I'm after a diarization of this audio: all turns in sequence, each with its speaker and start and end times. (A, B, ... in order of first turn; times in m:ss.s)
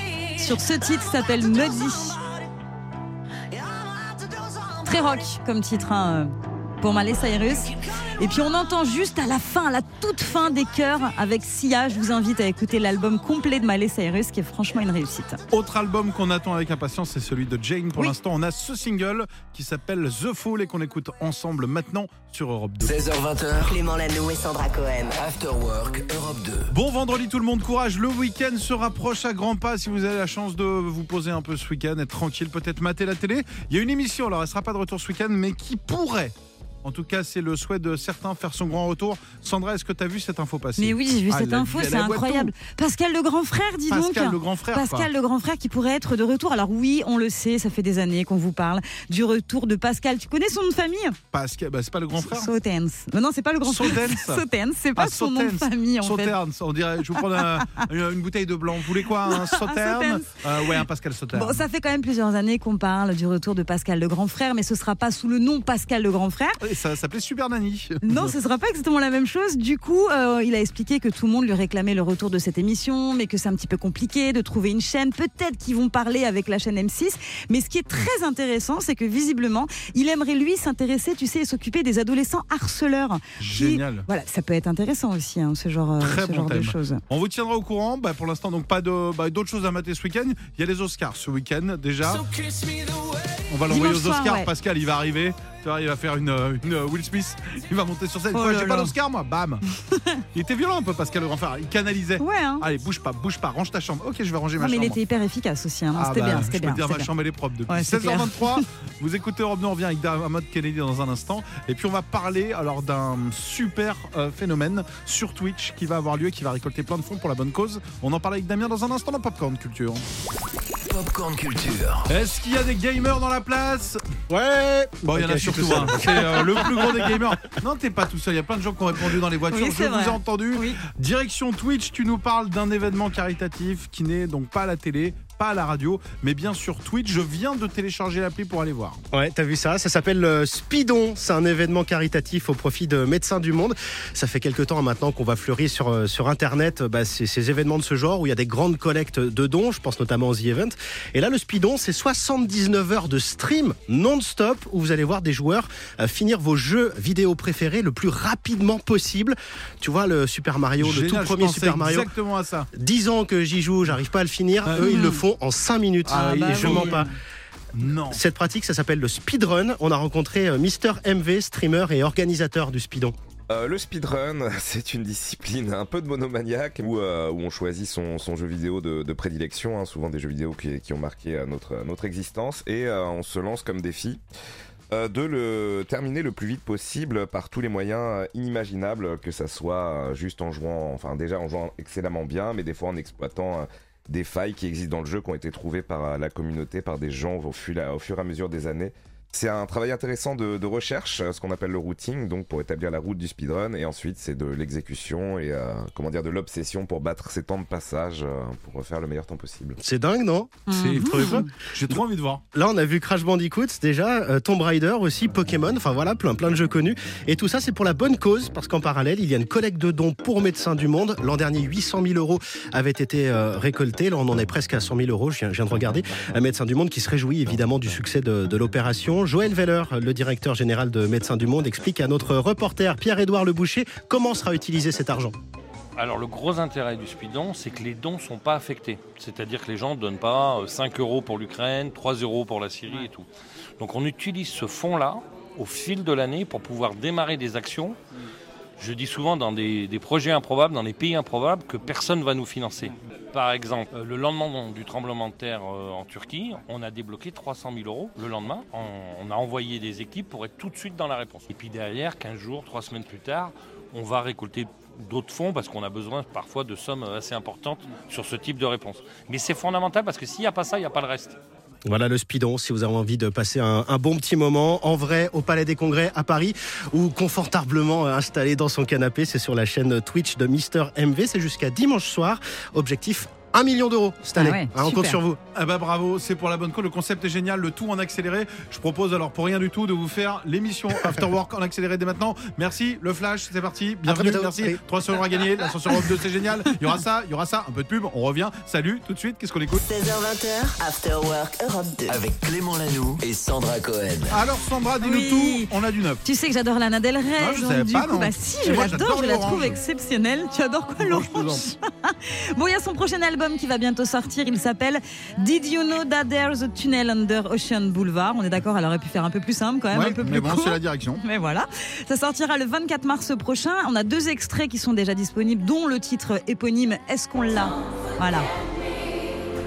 0:00.3-0:02.2 A
0:04.8-0:15.4 A
0:15.5-0:23.0 B
0:22.8-0:23.8 C
0:23.6-0:25.2 D
0:25.2-0:26.7 C
0:26.7-0:42.5 B
0:40.8-0:51.2 A
0:43.9-0:45.1 B
0:51.3-0:52.5 B
0:52.2-0:56.3 A
0:53.6-0:54.4 B
0:55.0-1:01.6 B
0:57.4-0:57.9 A
0:59.2-1:00.8 A
1:01.3-1:06.6 A
1:06.6-1:08.3 B
1:08.0-1:27.0 A
1:23.4-1:24.1 B
1:26.0-1:32.3 B
1:33.5-1:39.6 B
1:33.7-1:34.5 A
1:38.3-1:38.9 A
1:39.9-1:40.2 A
1:40.3-1:45.0 B
1:42.2-1:42.6 A
1:44.6-1:47.1 A
1:45.9-2:00.0 B
1:47.7-1:48.6 A
2:00.9-2:02.1 C
2:02.1-2:04.0 B
2:04.3-2:07.0 E
2:05.0-2:19.0 B
2:09.5-2:10.8 A
2:19.1-2:42.1 E
2:40.8-2:42.7 B
2:42.7-2:47.0 E
2:44.6-2:45.0 B
2:44.8-2:45.2 A
2:46.1-2:47.1 A
2:46.1-2:47.1 B
2:47.7-2:48.2 B
2:48.1-2:53.1 E
2:53.5-3:04.2 F
3:04.9-3:29.8 F
3:29.8-3:30.7 E
3:30.7-3:31.5 A
3:30.7-3:32.4 B
3:32.5-3:55.3 E
3:56.0-4:03.3 G
4:03.8-4:08.0 G
4:08.8-4:31.4 G
4:31.9-4:45.4 E
4:44.4-4:45.2 A
4:45.5-4:59.8 B
4:54.1-4:54.8 E
4:59.8-5:02.2 D
5:02.1-5:04.4 C
5:04.3-5:06.2 B
5:05.0-5:05.7 A
5:06.2-5:28.5 A
5:07.4-5:09.8 B
5:11.0-5:11.7 B
5:19.9-5:21.2 B